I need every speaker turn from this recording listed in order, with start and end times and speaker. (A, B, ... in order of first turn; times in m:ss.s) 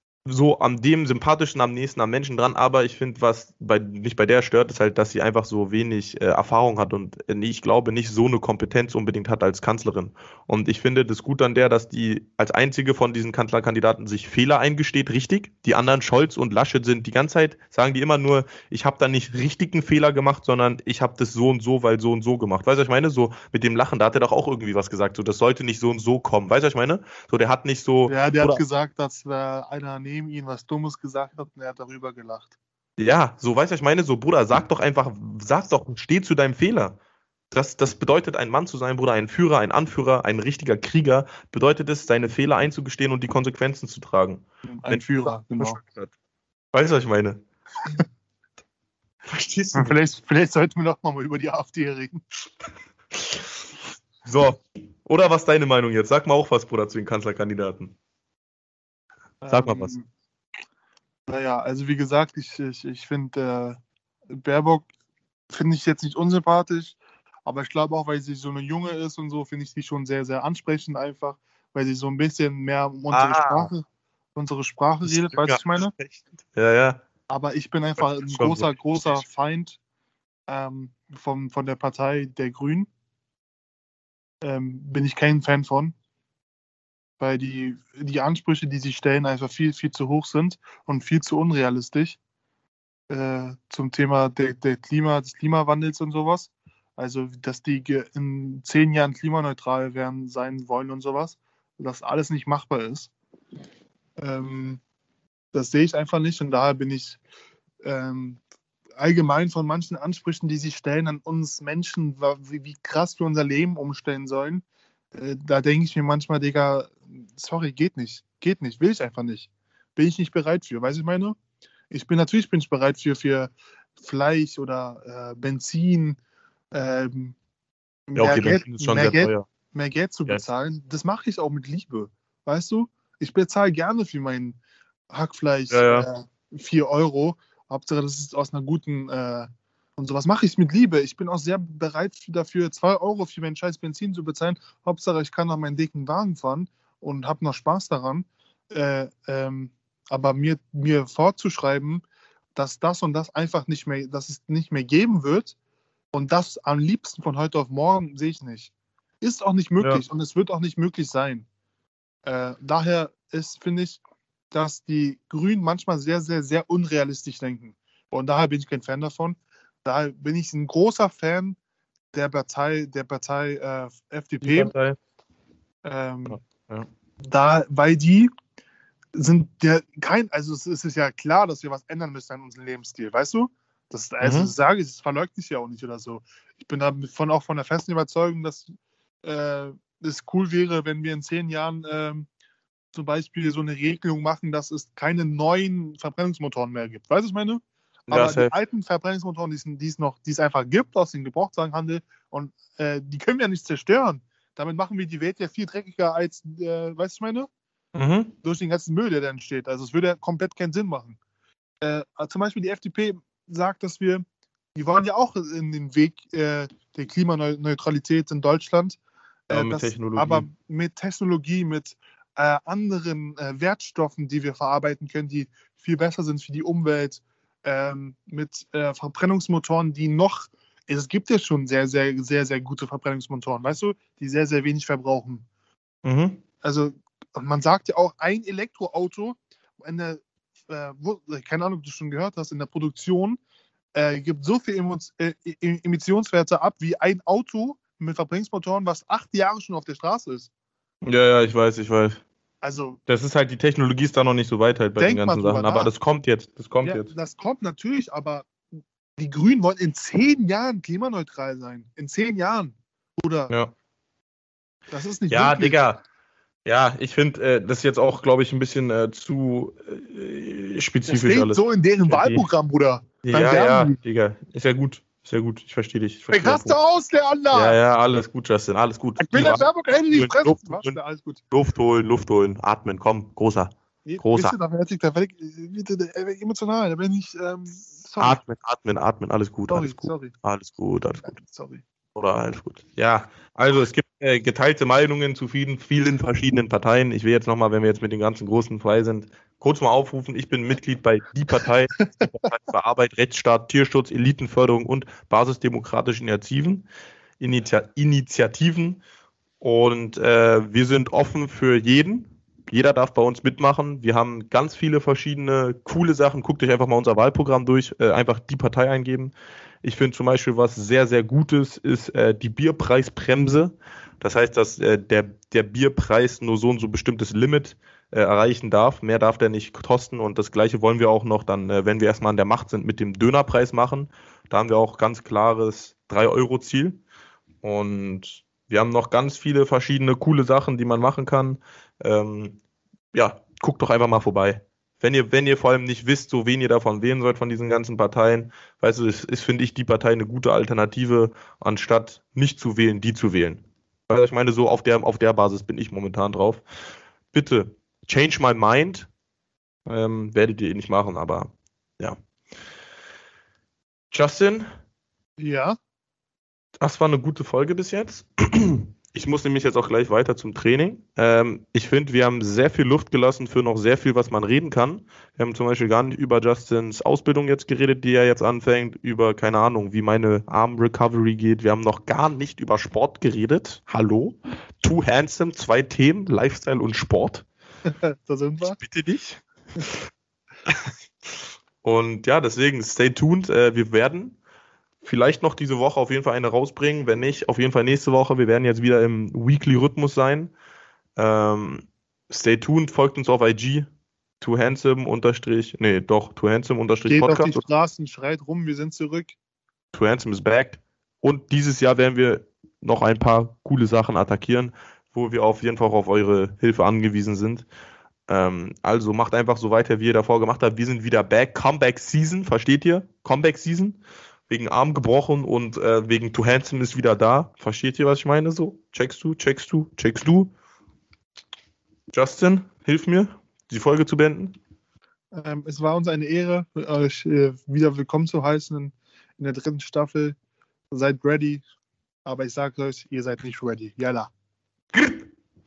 0:00.2-0:28.6 A
0:28.1-0:32.5 B
0:33.0-0:37.0 A
0:37.5-0:46.1 A
0:44.7-0:45.8 B
0:46.7-0:47.4 A
0:49.3-0:49.9 A
0:49.7-0:52.2 B
0:54.2-0:57.9 A
0:59.4-1:00.1 B
0:59.5-0:59.9 A
1:01.3-1:04.9 B
1:05.5-1:15.9 B
1:13.1-1:13.7 A
1:15.0-1:17.0 A
1:17.3-1:19.8 B
1:18.0-1:19.2 A
1:20.5-1:22.9 B
1:24.4-1:25.9 B
1:27.2-1:32.2 B
1:33.1-1:43.1 B
1:44.2-1:44.8 B
1:45.5-1:47.2 B
1:47.8-1:48.4 B
1:49.0-2:01.4 B
2:01.9-2:06.2 B
2:06.7-2:07.4 B
2:08.1-2:14.6 B
2:08.1-2:09.4 A
2:15.1-2:32.0 B
2:15.7-2:16.1 A
2:32.5-2:35.5 B
2:36.1-2:41.5 B
2:42.2-2:51.6 B
2:52.1-2:54.7 B
2:54.4-2:55.0 A
2:55.8-2:56.4 B
2:56.3-2:56.9 A
2:57.2-2:58.3 B
2:59.1-3:08.7 B
3:04.2-3:04.5 A
3:09.2-3:12.3 B
3:12.9-3:27.5 B
3:18.1-3:18.5 A
3:27.9-3:28.3 A
3:28.4-3:31.2 B
3:31.8-3:34.2 B
3:34.7-3:55.4 B
3:39.5-3:40.5 A
3:56.0-3:56.4 A
3:56.6-4:03.4 B
4:03.9-4:10.5 B
4:11.0-4:12.2 A
4:12.6-4:13.0 B
4:13.1-4:17.1 A
4:15.0-4:15.9 B
4:16.8-4:18.5 B
4:19.2-4:23.5 B
4:24.9-4:25.8 B
4:25.3-4:26.0 A
4:26.6-4:32.5 A
4:31.1-4:34.0 B
4:33.2-4:36.8 A
4:36.3-4:37.8 B
4:37.5-4:41.0 A
4:39.2-4:41.4 B
4:41.5-4:44.6 A
4:44.0-4:48.4 B
4:48.2-4:51.4 A
4:49.7-4:50.3 B
4:51.2-4:51.8 B
4:52.1-5:06.8 A
5:02.0-5:02.2 B
5:07.4-5:09.0 A
5:09.6-5:37.0 A
5:37.6-5:42.6 A
5:43.1-5:56.6 A
5:57.3-5:59.1 A
5:59.8-6:02.2 A
6:04.1-6:04.7 A
6:05.4-6:05.8 B
6:06.8-6:27.4 A
6:27.8-6:28.8 B
6:28.6-6:30.0 A
6:31.8-6:34.4 A
6:35.0-6:40.5 A
6:41.2-6:43.9 A
6:44.4-6:47.6 A
6:47.1-6:49.4 B
6:49.9-6:57.6 A
6:58.3-7:10.5 A
7:12.1-7:14.5 A
7:15.3-7:20.4 B
7:20.9-7:21.6 B
7:22.2-7:24.3 B
7:24.9-7:25.3 A